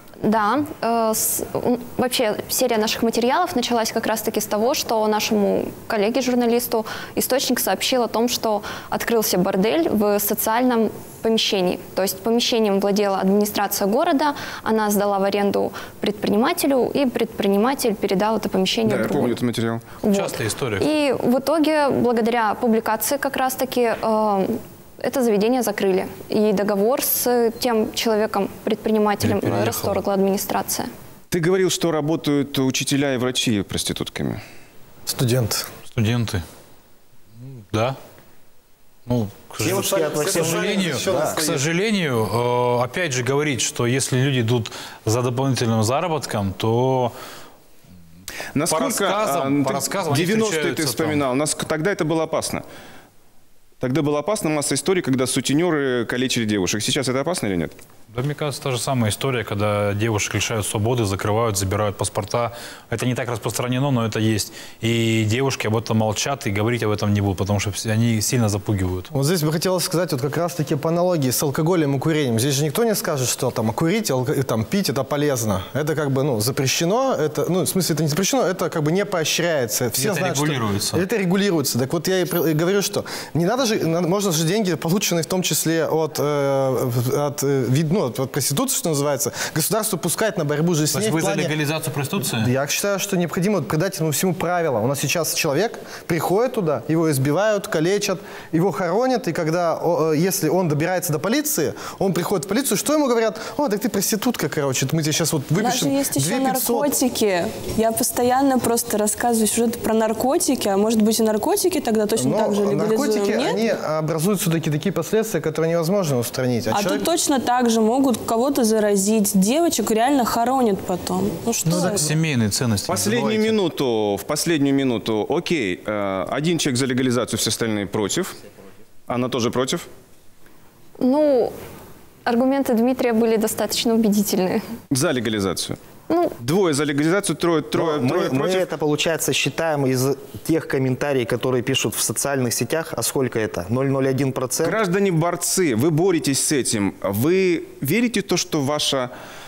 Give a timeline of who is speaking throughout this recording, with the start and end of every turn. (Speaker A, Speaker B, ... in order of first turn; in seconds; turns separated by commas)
Speaker A: 0.2-19.4, Speaker B: 18.8-19.8, Speaker A: 20.0-30.9, Speaker C: 20.1-20.9, Speaker C: 29.2-30.0, Speaker B: 31.3-34.4, Speaker D: 35.1-35.7, Speaker C: 35.9-36.4, Speaker C: 37.5-38.0, Speaker C: 39.1-47.1, Speaker E: 39.6-41.4, Speaker D: 39.6-41.6, Speaker B: 48.5-52.6, Speaker C: 48.7-51.2, Speaker B: 53.8-57.7, Speaker C: 58.1-69.1, Speaker D: 69.1-91.5, Speaker C: 80.0-81.0, Speaker C: 90.9-92.5, Speaker D: 92.2-106.9, Speaker F: 105.6-113.6, Speaker D: 112.2-117.0, Speaker F: 116.7-122.1, Speaker C: 121.6-123.6, Speaker B: 122.9-128.3, Speaker B: 129.1-129.9, Speaker A: 131.0-131.5, Speaker A: 132.2-134.6, Speaker B: 134.9-135.8, Speaker A: 136.1-136.3, Speaker B: 136.4-138.7, Speaker E: 137.7-144.8, Speaker B: 144.6-149.1